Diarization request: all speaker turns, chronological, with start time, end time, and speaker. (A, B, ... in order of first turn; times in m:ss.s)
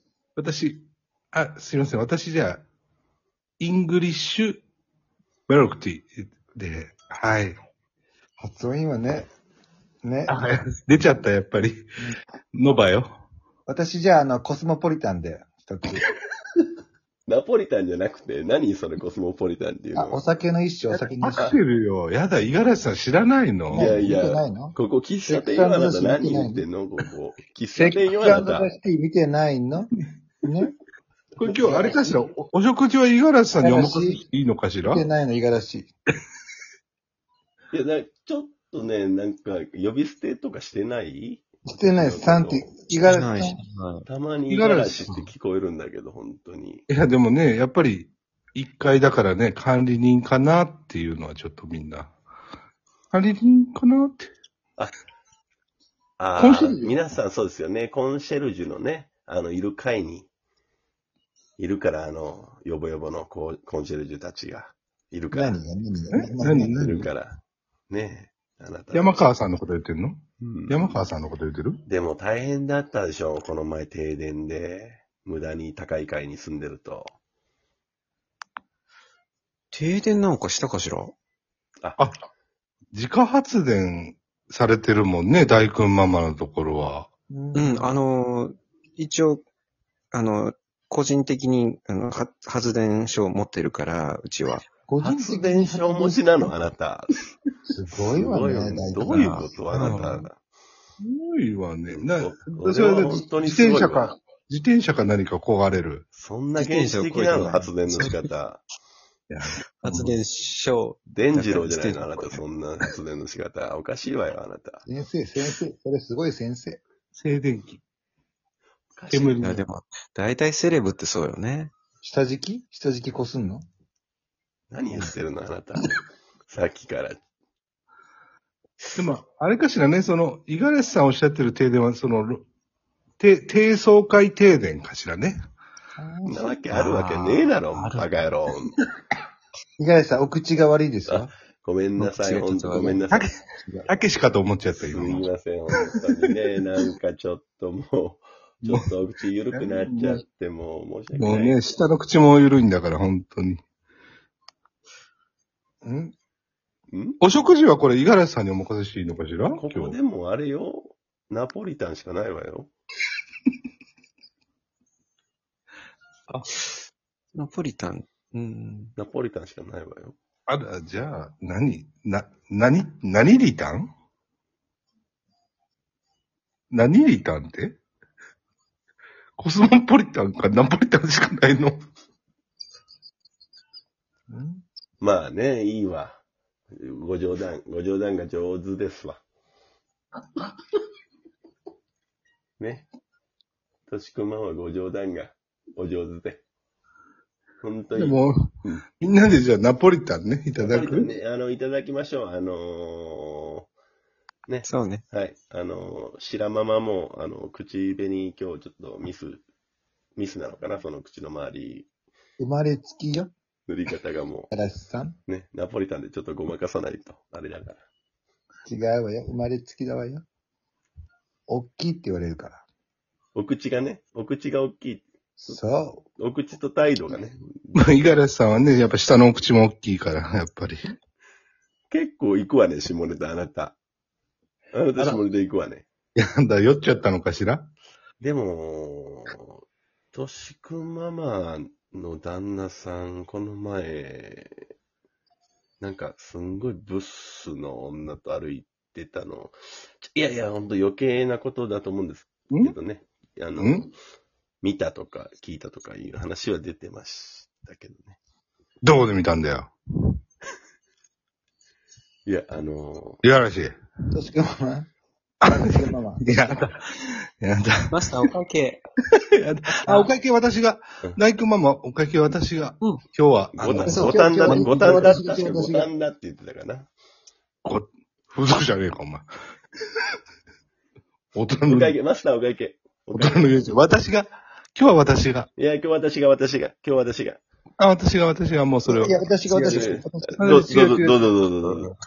0:00.4-0:02.6 A
0:03.6-0:04.6 A
0:05.5-0:07.6 A
0:08.4-0:09.3 B
0:10.0-0:10.4 B
0:10.3-0:11.9 A
0:12.5-0:13.2 A
0:13.7-0:16.1 B
0:17.3-0:20.3 C
0:19.9-0:21.6 B
0:20.9-0:24.0 A
0:23.7-0:26.6 B
0:23.7-0:28.7 C
0:27.8-0:29.9 B
0:30.4-0:30.7 B
0:31.4-0:35.0 A
0:31.4-0:32.3 B
0:33.6-0:34.2 B
0:34.8-0:35.9 B
0:37.7-0:42.7 C
0:41.7-0:43.6 B
0:43.1-0:44.1 D
0:44.1-0:46.8 C
0:44.5-0:45.1 A
0:46.9-0:52.2 A
0:53.1-0:54.3 A
0:56.2-1:00.3 C
0:56.4-0:56.9 A
1:01.6-1:05.6 C
1:05.3-1:07.0 B
1:06.1-1:07.1 A
1:06.8-1:07.4 C
1:07.9-1:09.3 C
1:08.9-1:11.8 A
1:10.4-1:11.1 C
1:11.9-1:17.1 C
1:19.7-1:21.1 D
1:22.9-1:27.1 A
1:27.3-1:28.0 B
1:27.6-1:29.4 D
1:30.1-1:34.6 D
1:34.9-1:36.6 B
1:35.0-1:37.2 C
1:37.7-1:39.6 B
1:37.9-1:40.4 C
1:39.1-1:40.3 D
1:41.0-1:46.0 A
1:41.9-1:44.1 C
1:46.1-1:48.6 C
1:46.6-1:48.3 D
1:49.3-1:50.2 A
1:49.8-1:52.4 D
1:51.1-1:54.8 C
1:54.9-1:56.8 B
1:57.2-1:57.8 A
1:59.0-1:59.4 C
1:59.1-1:59.7 A
1:59.4-2:01.7 D
2:02.0-2:03.6 B
2:04.7-2:06.0 C
2:06.5-2:07.2 C
2:09.0-2:12.5 A
2:13.2-2:15.4 A
2:16.0-2:16.6 B
2:16.3-2:18.8 C
2:16.7-2:18.1 D
2:19.8-2:21.3 B
2:21.1-2:23.3 C
2:22.0-2:23.9 D
2:23.9-2:25.3 A
2:24.8-2:31.6 C
2:29.5-2:30.2 A
2:31.2-2:33.6 A
2:35.8-2:36.1 B
2:36.9-2:37.2 C
2:37.2-2:40.0 A
2:39.4-2:42.7 C
2:47.3-2:48.9 D
2:49.0-2:50.2 C
2:50.5-2:53.9 A
2:56.7-2:57.8 A
2:59.4-3:01.8 A
3:04.3-3:04.6 B
3:05.0-3:06.2 C
3:06.7-3:09.2 C
3:12.6-3:12.9 C
3:13.9-3:16.4 C
3:17.6-3:18.8 C
3:18.0-3:18.3 A
3:19.0-3:21.1 A
3:20.6-3:23.7 C
3:24.5-3:29.4 C
3:24.6-3:25.0 D
3:30.2-3:31.9 C
3:32.4-3:33.3 B
3:33.7-3:34.5 C
3:34.5-3:35.2 B
3:35.3-3:37.8 C
3:38.7-3:40.2 B
3:41.5-3:42.6 B
3:43.4-3:45.6 C
3:45.4-3:46.0 B
3:46.2-3:47.9 C
3:47.8-3:50.9 A
3:51.9-3:53.8 C
3:54.7-3:55.9 C
3:56.2-3:57.7 A
3:58.2-3:59.6 C
4:00.1-4:04.6 C
4:05.8-4:13.8 C
4:13.6-4:13.9 A
4:14.6-4:18.2 C
4:18.8-4:19.8 A
4:22.3-4:23.2 C
4:23.2-4:23.8 A
4:24.1-4:24.9 B
4:25.5-4:26.5 B
4:26.3-4:27.8 A
4:27.9-4:28.8 D
4:29.4-4:34.2 A
4:29.8-4:30.1 D
4:33.5-4:36.9 C
4:33.8-4:35.9 B
4:33.9-4:35.0 D
4:37.6-4:39.3 A
4:41.4-4:42.0 A
4:41.7-4:43.6 C
4:43.1-4:45.5 A
4:45.6-4:47.4 C
4:47.8-4:49.2 A
4:48.8-4:50.5 B
4:49.5-4:51.9 C
4:50.4-4:51.3 A
4:51.6-4:51.9 D